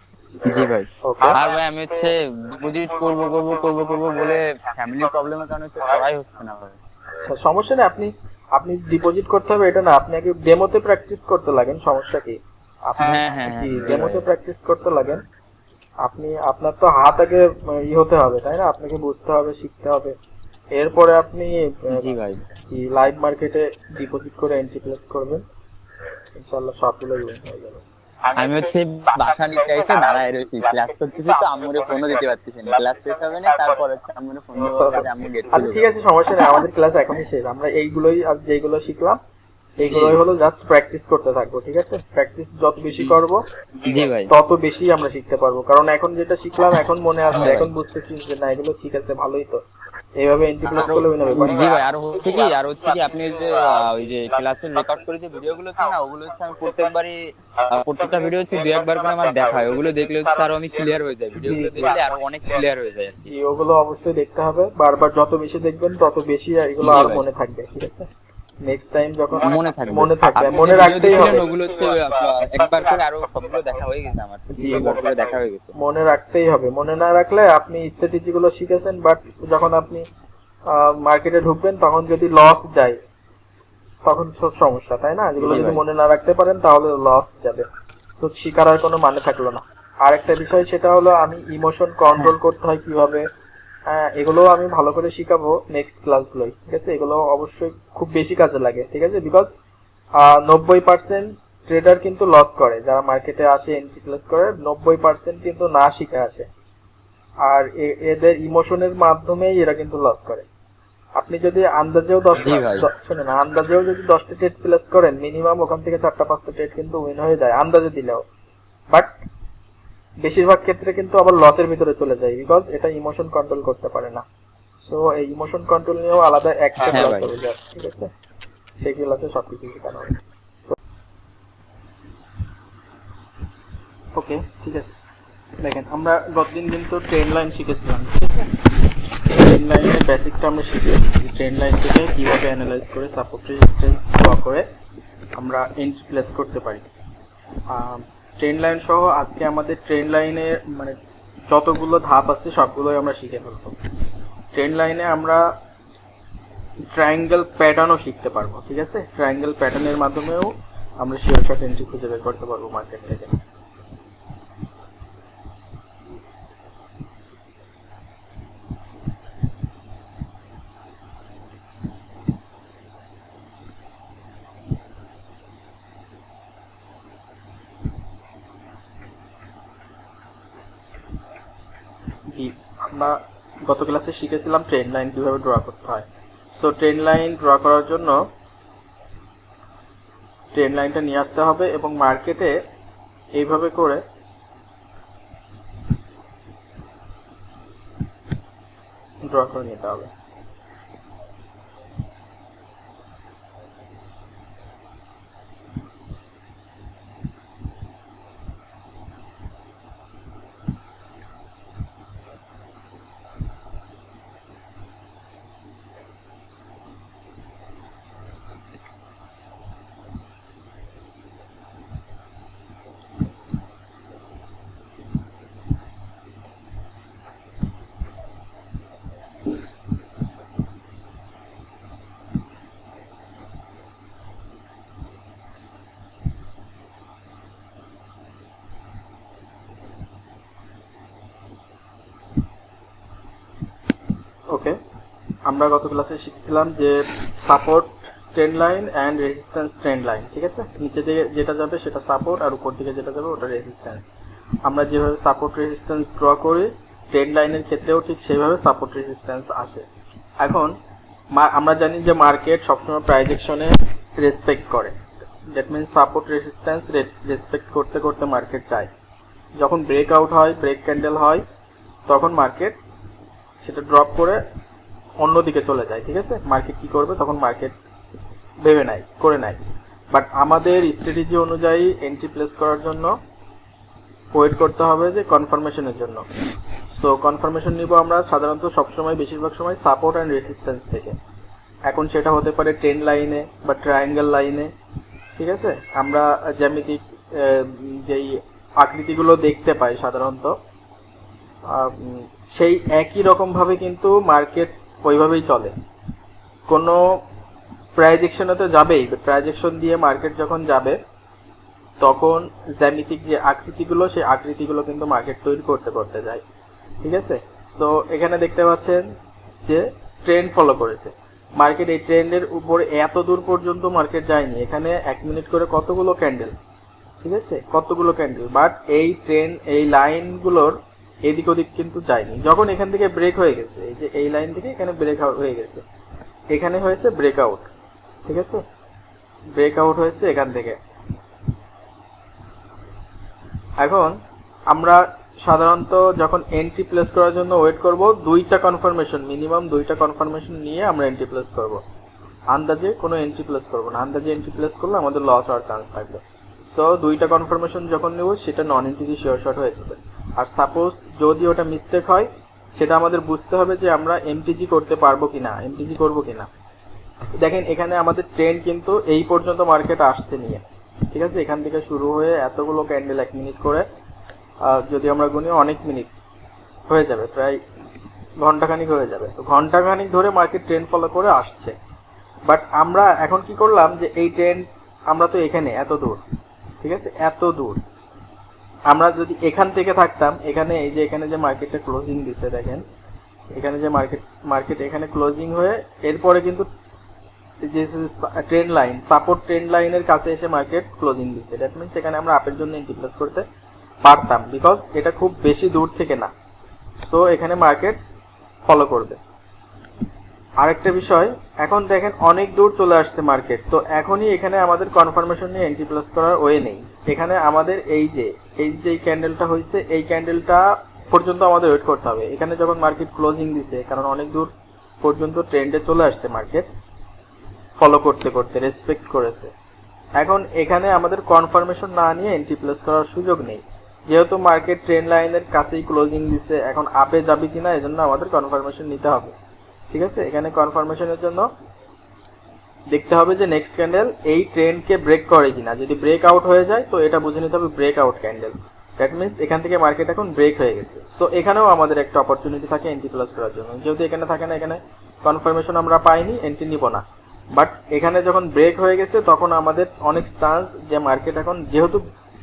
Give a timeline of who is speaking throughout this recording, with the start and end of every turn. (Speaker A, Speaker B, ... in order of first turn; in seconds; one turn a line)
Speaker A: 0.4-6.8
Speaker B: 1.0-1.4
Speaker B: 7.2-15.2
Speaker A: 13.0-14.3
Speaker B: 16.0-20.2
Speaker B: 20.7-22.1
Speaker A: 21.9-22.4
Speaker B: 22.7-25.4
Speaker B: 26.4-27.8
Speaker A: 28.3-35.9
Speaker B: 34.8-39.2
Speaker B: 39.8-43.4
Speaker A: 39.8-40.2
Speaker A: 43.8-44.3
Speaker B: 44.3-49.6
Speaker A: 47.3-47.7
Speaker B: 50.2-51.7
Speaker A: 50.8-63.1
Speaker B: 61.5-61.9
Speaker B: 63.2-68.1
Speaker A: 66.8-67.2
Speaker B: 68.6-71.5
Speaker A: 69.4-75.7
Speaker B: 74.5-75.0
Speaker B: 75.8-80.0
Speaker B: 80.7-83.0
Speaker B: 84.0-93.3
Speaker A: 85.4-85.8
Speaker B: 93.9-99.5
Speaker B: 100.2-106.5
Speaker B: 107.4-110.5
Speaker B: 111.2-118.2
Speaker A: 112.4-112.9
Speaker B: 120.2-124.2
Speaker B: 124.8-128.1
Speaker A: 126.9-127.3
Speaker B: 128.8-130.8
Speaker B: 134.2-135.0
Speaker B: 135.6-138.5
Speaker B: 139.3-144.7
Speaker B: 145.4-146.9
Speaker B: 147.7-151.0
Speaker B: 151.5-153.8
Speaker B: 154.5-155.4
Speaker B: 156.9-163.4
Speaker B: 182.3-188.2
Speaker B: 190.5-192.6
Speaker B: 193.4-194.0
Speaker B: 199.2-200.1
Speaker B: 244.5-244.8
Speaker B: 245.5-254.1
Speaker B: 254.7-259.9
Speaker B: 260.4-260.7
Speaker B: 261.3-268.9
Speaker B: 269.6-271.4
Speaker B: 272.1-272.8
Speaker B: 273.6-274.4
Speaker B: 275.2-277.8
Speaker B: 278.6-279.6
Speaker B: 280.1-283.2
Speaker B: 284.3-286.3
Speaker B: 286.9-291.2
Speaker B: 291.9-294.7
Speaker B: 295.4-300.6
Speaker B: 301.7-305.7
Speaker B: 306.7-307.2
Speaker B: 308.0-311.0
Speaker B: 312.0-316.4
Speaker B: 317.0-319.1
Speaker B: 319.6-326.6
Speaker B: 327.2-335.8
Speaker B: 336.5-337.7
Speaker B: 338.3-338.6
Speaker B: 339.6-340.8
Speaker B: 343.8-344.2
Speaker B: 344.7-351.8
Speaker B: 352.5-366.5
Speaker B: 367.4-373.9
Speaker B: 374.6-376.1
Speaker B: 376.9-377.6
Speaker B: 378.4-381.8
Speaker B: 382.5-386.2
Speaker B: 386.8-387.8
Speaker B: 388.9-392.8
Speaker B: 393.5-396.7
Speaker B: 397.6-403.4
Speaker B: 404.0-406.3
Speaker B: 407.0-408.0
Speaker B: 408.6-409.2
Speaker B: 410.6-426.7
Speaker B: 427.8-429.5
Speaker B: 430.2-439.3
Speaker B: 439.9-441.5
Speaker B: 442.9-462.0